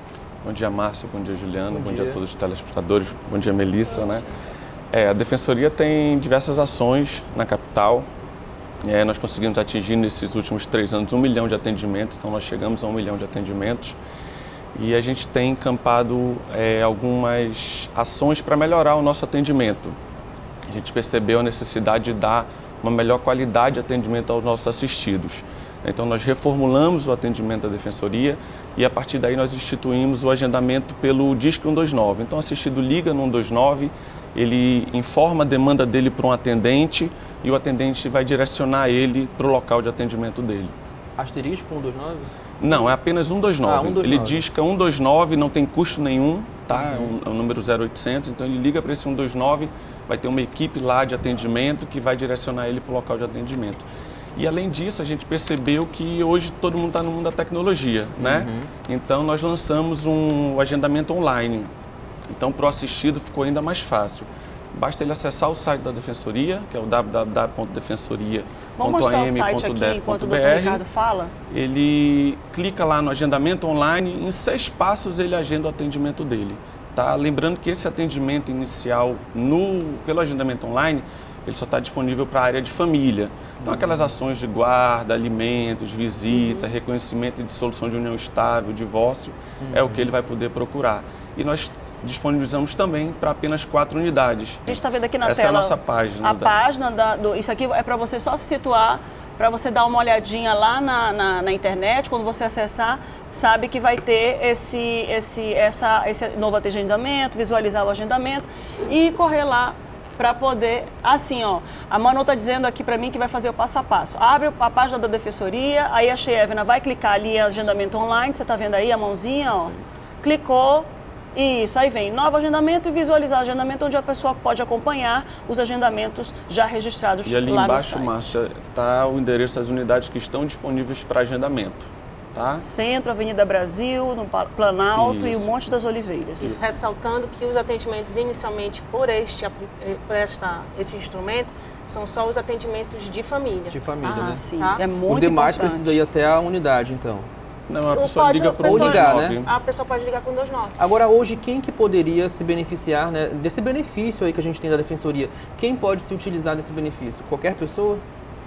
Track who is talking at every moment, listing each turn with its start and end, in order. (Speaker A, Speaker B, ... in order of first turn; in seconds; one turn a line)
Speaker A: 0.4-4.3
Speaker B: 1.7-2.2
Speaker A: 4.9-8.1
Speaker A: 8.8-14.0
Speaker A: 14.8-20.0
Speaker A: 20.7-40.7
Speaker B: 41.2-42.3
Speaker A: 42.6-61.7
Speaker B: 43.6-44.4
Speaker B: 46.7-47.1
Speaker B: 58.2-58.7
Speaker A: 62.3-70.8
Speaker C: 68.8-71.3
Speaker A: 71.5-96.6
Speaker B: 83.6-84.1
Speaker C: 86.3-86.7
Speaker B: 89.6-90.1
Speaker C: 94.7-128.2
Speaker A: 119.5-119.8
Speaker A: 127.2-132.6
Speaker C: 132.6-136.5
Speaker A: 134.9-135.5
Speaker D: 136.4-143.8
Speaker B: 143.7-144.4
Speaker C: 144.0-146.0
Speaker D: 144.6-144.8
Speaker B: 145.1-147.3
Speaker A: 147.7-149.5
Speaker D: 147.9-150.8
Speaker B: 148.6-149.4
Speaker B: 150.8-158.0